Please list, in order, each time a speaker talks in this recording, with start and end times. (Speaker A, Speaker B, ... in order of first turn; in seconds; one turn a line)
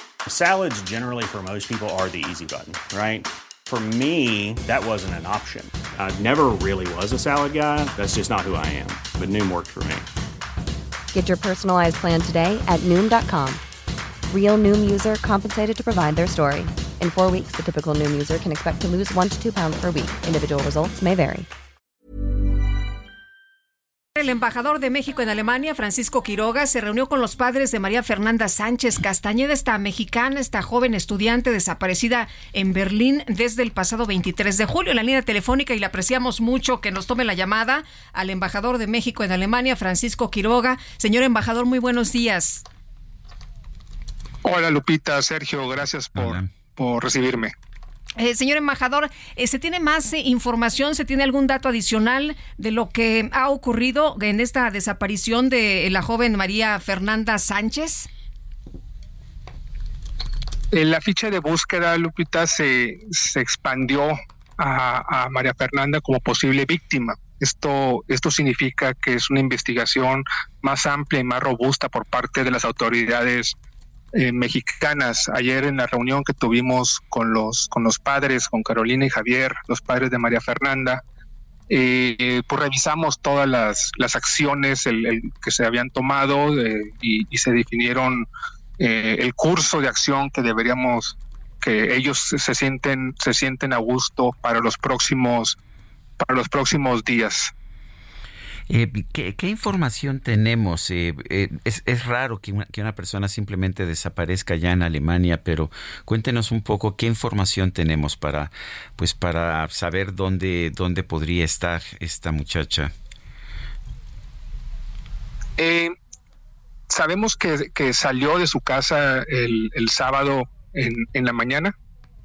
Speaker A: 0.3-10.1
Speaker B: 11.1-13.6
Speaker B: 14.3-21.5
Speaker C: 24.2-42.6
Speaker D: 44.5-47.5
Speaker E: 46.2-46.5
Speaker C: 48.2-58.1
Speaker D: 60.7-73.5
Speaker D: 74.1-81.0
Speaker D: 81.7-88.3
Speaker D: 88.8-95.6
Speaker D: 96.2-97.5
Speaker E: 98.7-112.9
Speaker D: 115.6-115.9
Speaker D: 116.9-121.7